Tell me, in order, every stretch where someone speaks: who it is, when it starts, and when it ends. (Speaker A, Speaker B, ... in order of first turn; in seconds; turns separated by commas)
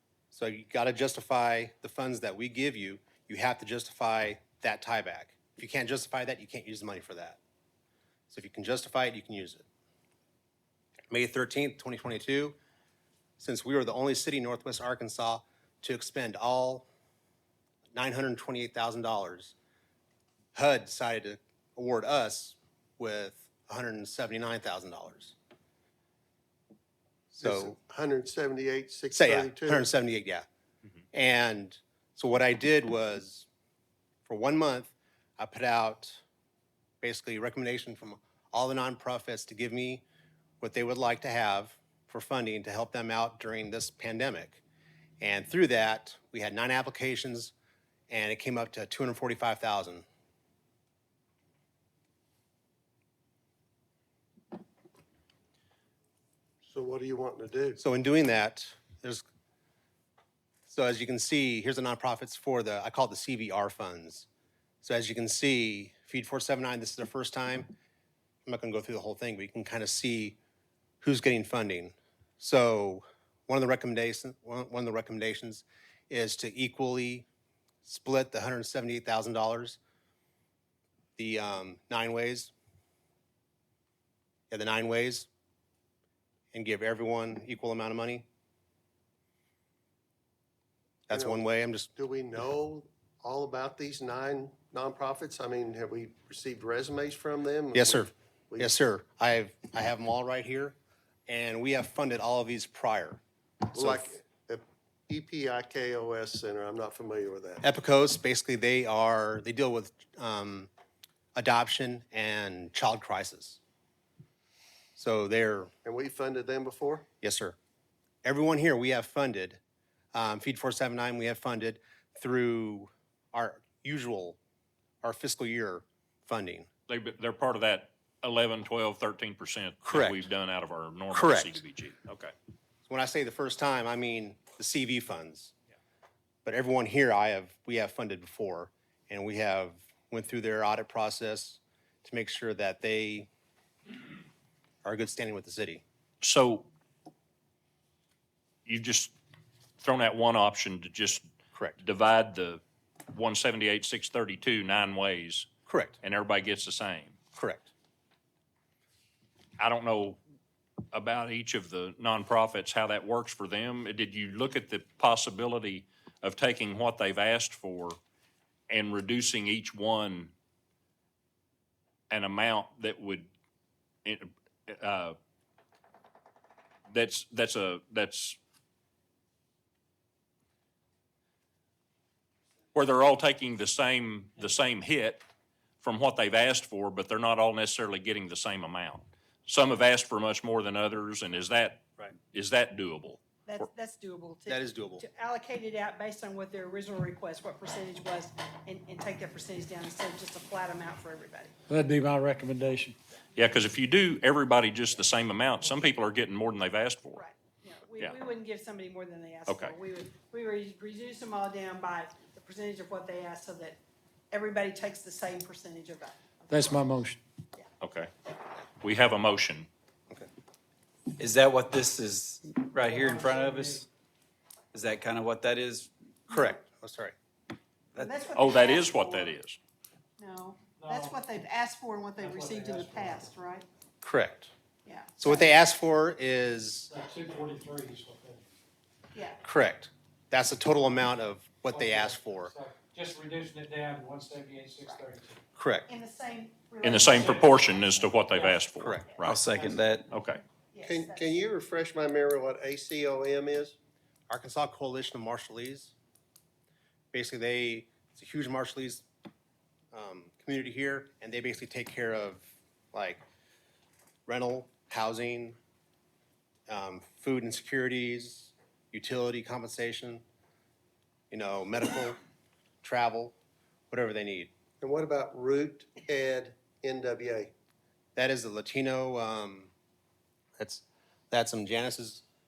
Speaker A: 0.3-7.4, Speaker A: 8.3-9.7, Speaker A: 11.1-12.6, Speaker A: 13.4-16.9, Speaker A: 17.9-19.6, Speaker A: 20.6-25.4, Speaker A: 27.3-27.8, Speaker B: 27.4-29.9, Speaker A: 29.1-30.4, Speaker A: 31.1-33.5, Speaker A: 34.3-36.2, Speaker A: 37.0-40.0, Speaker A: 40.6-44.6, Speaker A: 45.2-47.5, Speaker A: 48.1-50.0, Speaker B: 56.6-57.8, Speaker A: 57.8-59.2, Speaker A: 60.7-64.3, Speaker A: 64.8-67.7, Speaker A: 68.5-70.4, Speaker A: 71.0-77.3, Speaker A: 77.8-79.8, Speaker A: 81.2-82.5, Speaker A: 84.5-85.3, Speaker A: 86.5-88.2, Speaker A: 91.1-91.9, Speaker B: 91.1-91.4, Speaker B: 92.0-98.7, Speaker A: 97.7-100.8, Speaker A: 101.3-103.2, Speaker B: 103.7-107.7, Speaker A: 103.7-104.1, Speaker A: 107.6-110.7, Speaker A: 111.3-113.6, Speaker A: 115.0-115.7, Speaker B: 115.8-117.1, Speaker A: 117.2-117.6, Speaker A: 118.2-119.6, Speaker A: 120.1-124.4, Speaker A: 125.0-126.7, Speaker C: 126.9-132.3, Speaker A: 129.8-130.2, Speaker A: 131.1-131.6, Speaker A: 132.9-135.5, Speaker A: 136.4-143.3, Speaker A: 144.8-145.8, Speaker C: 146.2-146.7, Speaker C: 148.7-149.2, Speaker C: 149.8-155.5, Speaker A: 151.6-151.8, Speaker A: 155.7-156.0, Speaker C: 156.0-157.2, Speaker A: 157.4-157.7, Speaker C: 159.6-160.2, Speaker C: 160.9-168.0, Speaker C: 168.7-170.3, Speaker C: 172.1-173.3, Speaker C: 174.1-175.2, Speaker C: 176.9-178.4, Speaker C: 182.7-185.2, Speaker C: 185.8-193.2, Speaker D: 193.5-201.6, Speaker A: 194.5-195.1, Speaker E: 201.7-203.0, Speaker C: 203.3-207.2, Speaker D: 207.2-213.8, Speaker C: 209.5-209.7, Speaker D: 214.3-216.9, Speaker E: 216.5-217.2, Speaker C: 217.8-218.1, Speaker C: 218.8-219.7, Speaker F: 221.2-223.9, Speaker E: 222.8-223.8, Speaker F: 224.7-225.9, Speaker A: 226.3-227.2, Speaker D: 228.0-229.3, Speaker C: 228.3-229.6, Speaker D: 230.2-233.7, Speaker E: 230.8-231.1, Speaker E: 232.2-233.3, Speaker A: 234.0-234.5, Speaker D: 234.8-235.6, Speaker A: 235.2-236.9, Speaker E: 236.9-238.4, Speaker D: 239.1-239.4, Speaker A: 239.4-242.5, Speaker E: 241.7-245.4, Speaker A: 245.6-245.9, Speaker D: 245.9-248.7, Speaker C: 246.8-249.4, Speaker E: 247.1-247.5, Speaker A: 248.8-249.2, Speaker F: 249.2-250.1, Speaker D: 249.3-249.9, Speaker C: 250.1-250.4, Speaker D: 250.7-251.4, Speaker B: 250.8-253.8, Speaker A: 254.3-255.9, Speaker A: 257.1-259.1, Speaker A: 259.9-263.2, Speaker A: 264.3-265.6, Speaker A: 266.7-270.2, Speaker A: 271.3-272.2, Speaker A: 272.8-273.4, Speaker A: 273.9-274.5, Speaker B: 274.8-277.5, Speaker A: 278.2-279.7, Speaker A: 280.6-282.2